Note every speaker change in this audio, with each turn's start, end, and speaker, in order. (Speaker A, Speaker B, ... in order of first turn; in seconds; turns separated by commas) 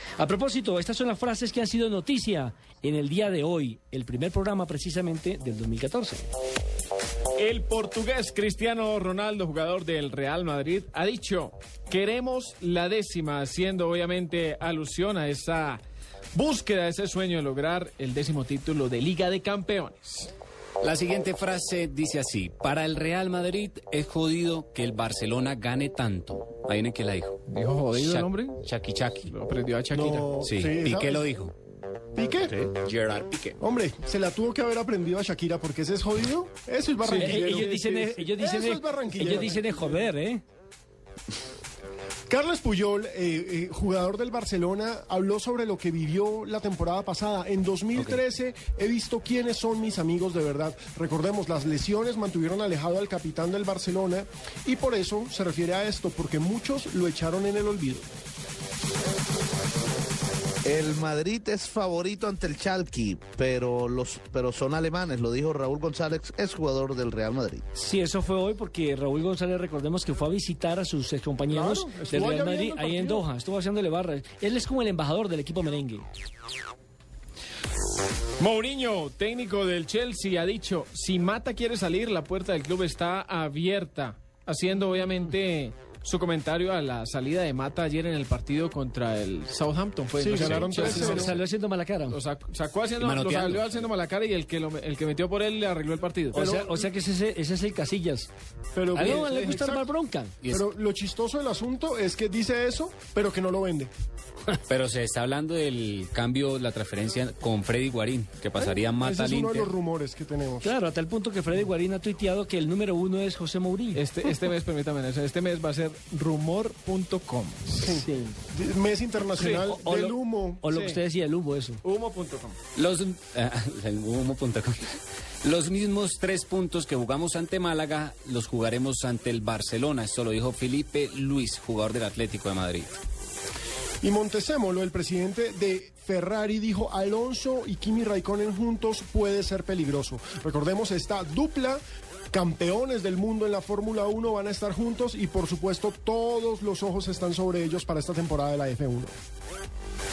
Speaker A: 0.2-6.2, Speaker B: 7.4-15.8, Speaker B: 16.3-20.3, Speaker C: 20.8-27.4, Speaker B: 27.5-28.6, Speaker C: 27.9-29.3, Speaker B: 29.2-30.5, Speaker D: 29.9-31.3, Speaker C: 30.5-31.5, Speaker D: 32.1-32.6, Speaker C: 32.8-33.6, Speaker D: 33.6-40.0, Speaker B: 37.0-37.6, Speaker A: 37.2-40.4, Speaker D: 42.3-58.1, Speaker E: 60.6-67.6, Speaker A: 67.7-76.1, Speaker D: 71.5-73.2, Speaker B: 78.4-91.4, Speaker D: 90.2-91.4, Speaker A: 90.7-92.2, Speaker B: 92.1-96.4, Speaker C: 93.0-93.6, Speaker A: 96.3-98.3, Speaker D: 96.3-96.9, Speaker D: 98.7-99.9, Speaker A: 98.9-100.3, Speaker B: 98.9-99.6, Speaker D: 100.4-103.9, Speaker C: 104.7-109.7, Speaker D: 108.6-110.7, Speaker A: 110.6-114.0, Speaker B: 113.9-117.9, Speaker D: 117.8-120.7, Speaker A: 117.9-118.3, Speaker B: 119.3-119.7, Speaker A: 119.5-121.8, Speaker B: 120.7-121.0, Speaker B: 121.8-122.6, Speaker C: 122.8-133.0, Speaker D: 134.0-149.2